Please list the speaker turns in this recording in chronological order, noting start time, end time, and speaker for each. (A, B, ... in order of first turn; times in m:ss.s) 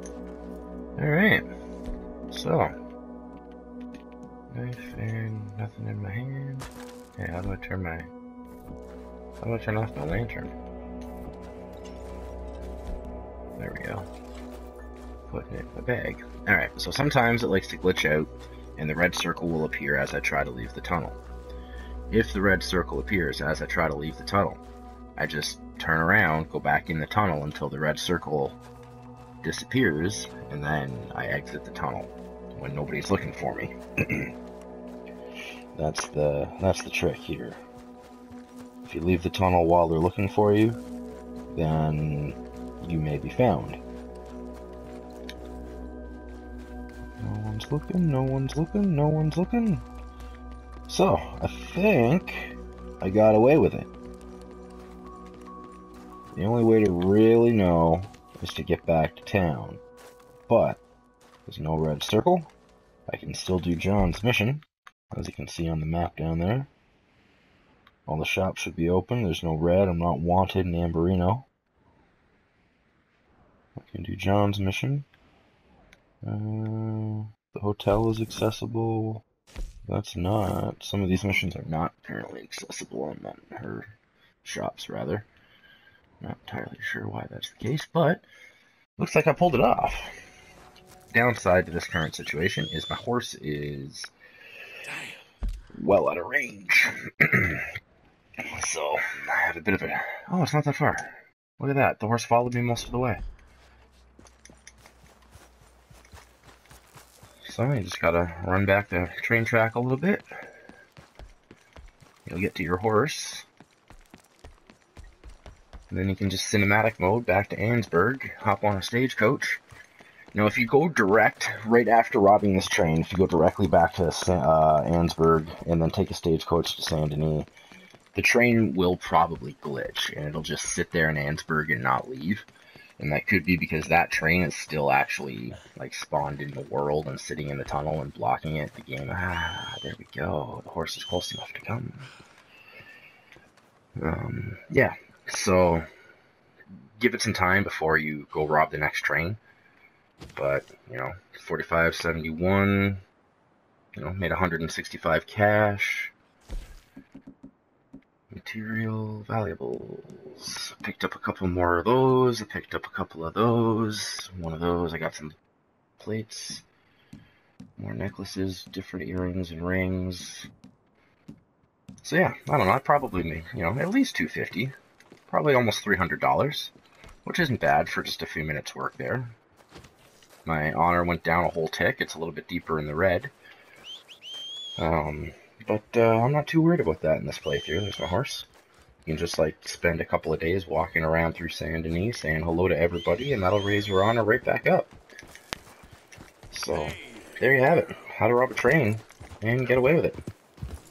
0:01.0-0:01.5 A
0:02.3-0:02.7 A
0:04.5-0:08.1 A
0:09.4-0:10.6 A
0:13.6-0:14.1 A
0:15.3-0:21.2 A
0:22.1-0:24.6 A
0:25.2-0:28.6 A
0:29.4-0:34.3 A
0:35.8-0:37.6 A
0:38.9-0:40.8 A
0:41.5-0:43.8 A
0:47.2-0:49.9 A
0:50.9-0:53.9 A
0:56.3-0:59.8 A
1:00.5-1:00.8 A
1:01.5-1:02.5 A
1:03.1-1:06.7 A
1:08.1-1:11.5 A
1:13.8-1:15.0 A
1:16.2-1:19.2 A
1:19.9-1:23.9 A
1:24.4-1:25.3 A
1:26.2-1:28.2 A
1:29.0-1:30.2 A
1:31.1-1:34.1 A
1:35.8-1:37.7 A
1:38.4-1:43.2 A
1:47.4-1:50.2 A
1:52.3-1:53.5 A
1:55.9-1:59.6 A
2:00.3-2:07.5 A
2:08.1-2:12.5 A
2:13.0-2:22.1 A
2:24.0-2:25.8 A
2:27.0-2:29.4 A
2:30.3-2:33.0 A
2:34.0-2:36.1 A
2:38.3-2:45.4 A
2:46.0-2:46.6 A
2:47.8-2:50.5 A
2:52.0-2:54.7 A
2:55.3-2:56.7 A
2:57.2-2:59.4 A
3:00.4-3:03.3 A
3:04.8-3:08.5 A
3:09.0-3:14.9 A
3:16.5-3:20.2 A